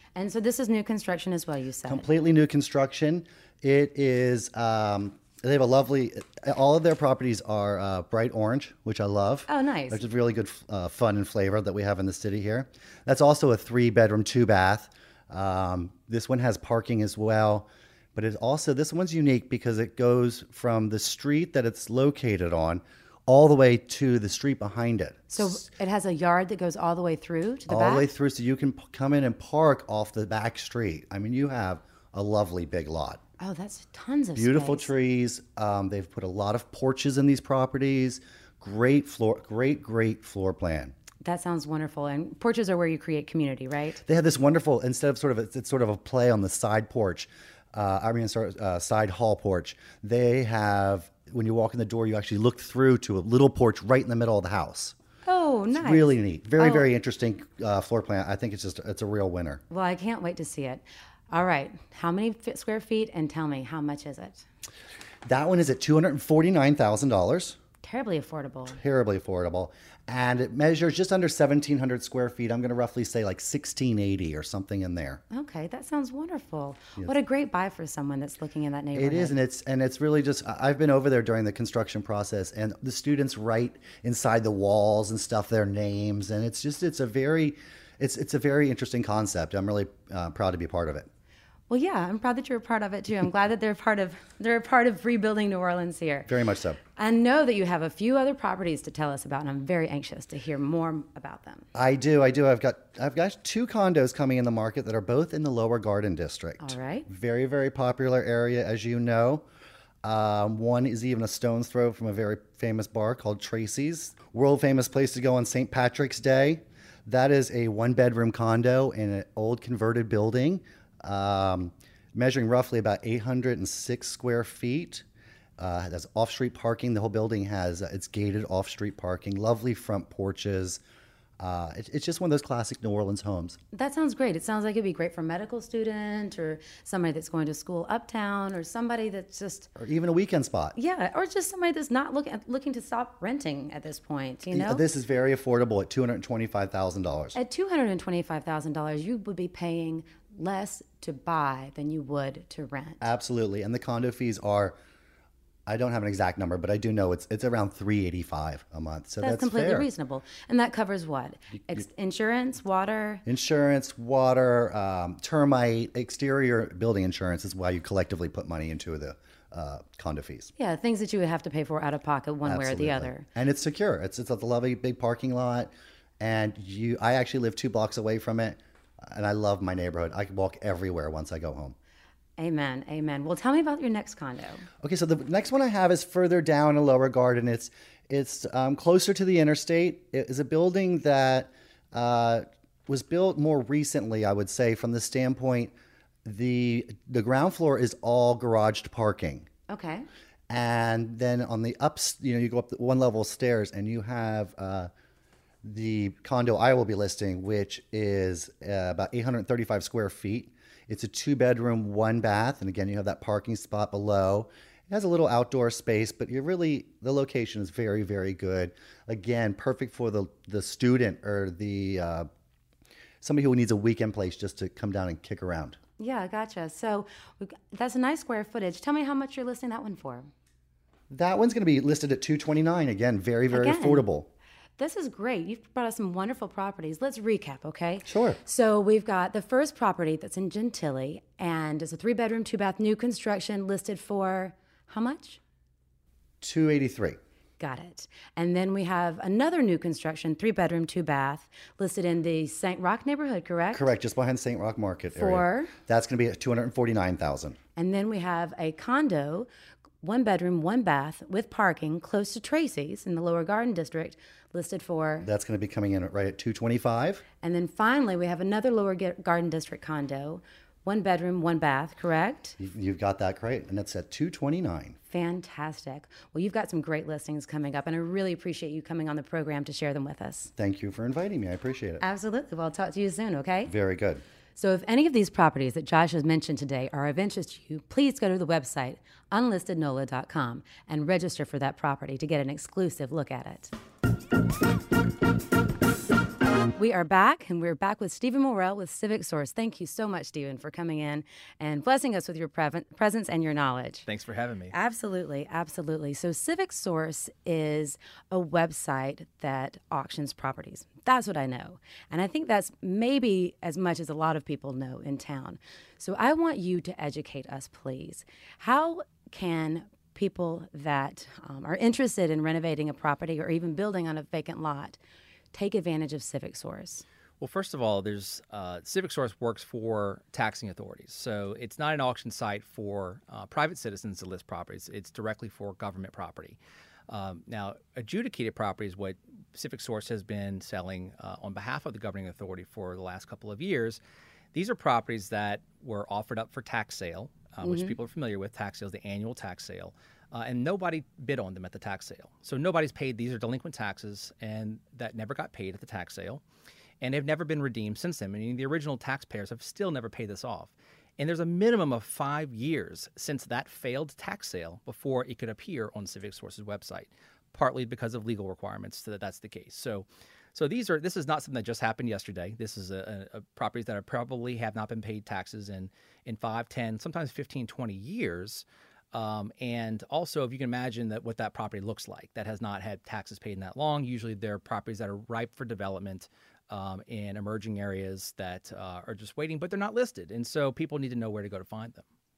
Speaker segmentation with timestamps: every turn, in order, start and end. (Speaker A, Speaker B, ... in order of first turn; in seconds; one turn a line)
Speaker A: 0.1-2.0
Speaker B: 1.9-25.6
Speaker A: 9.5-10.0
Speaker A: 25.3-28.1
Speaker B: 27.7-33.2
Speaker A: 33.4-34.9
Speaker B: 34.4-40.9
Speaker A: 41.2-44.0
Speaker B: 44.0-55.0
Speaker A: 55.3-56.9
Speaker B: 55.7-59.6
Speaker A: 59.7-64.5
Speaker B: 65.3-67.6
Speaker A: 67.8-68.8
Speaker B: 68.7-75.2
Speaker A: 75.3-79.3
Speaker B: 79.0-91.1
Speaker A: 91.7-96.3
Speaker B: 96.3-96.8
Speaker A: 97.0-101.7
Speaker B: 101.8-109.5
Speaker A: 106.6-107.1
Speaker B: 110.0-125.0
Speaker B: 125.6-130.8
Speaker B: 131.4-133.6
Speaker A: 133.7-139.7
Speaker B: 139.8-140.8
Speaker A: 140.8-144.8
Speaker B: 144.5-147.4
Speaker A: 147.3-153.0
Speaker B: 153.0-154.8
Speaker B: 155.7-159.9
Speaker A: 159.2-163.2
Speaker B: 163.3-170.5
Speaker A: 170.6-173.3
Speaker B: 172.4-181.8
Speaker A: 182.4-184.7
Speaker B: 184.8-195.7
Speaker B: 196.2-199.5
Speaker A: 199.7-200.1
Speaker B: 200.5-204.9
Speaker B: 205.6-222.3
Speaker B: 223.2-225.8
Speaker A: 226.0-230.3
Speaker B: 231.1-234.3
Speaker A: 233.5-234.1
Speaker A: 234.8-245.4
Speaker B: 238.1-238.4
Speaker B: 246.4-247.2
Speaker A: 247.6-253.9
Speaker B: 253.7-257.6
Speaker A: 255.1-255.7
Speaker A: 257.8-259.5
Speaker A: 260.0-265.3
Speaker B: 265.2-267.2
Speaker A: 267.4-272.6
Speaker B: 272.6-275.0
Speaker A: 275.1-280.5
Speaker B: 280.6-282.0
Speaker A: 282.0-283.7
Speaker B: 283.7-284.2
Speaker A: 284.6-293.7
Speaker A: 296.8-304.1
Speaker C: 304.1-304.7
Speaker A: 304.7-325.0
Speaker A: 325.5-327.1
Speaker C: 327.4-336.6
Speaker C: 337.1-344.0
Speaker C: 344.5-356.4
Speaker A: 347.6-347.9
Speaker C: 357.0-392.1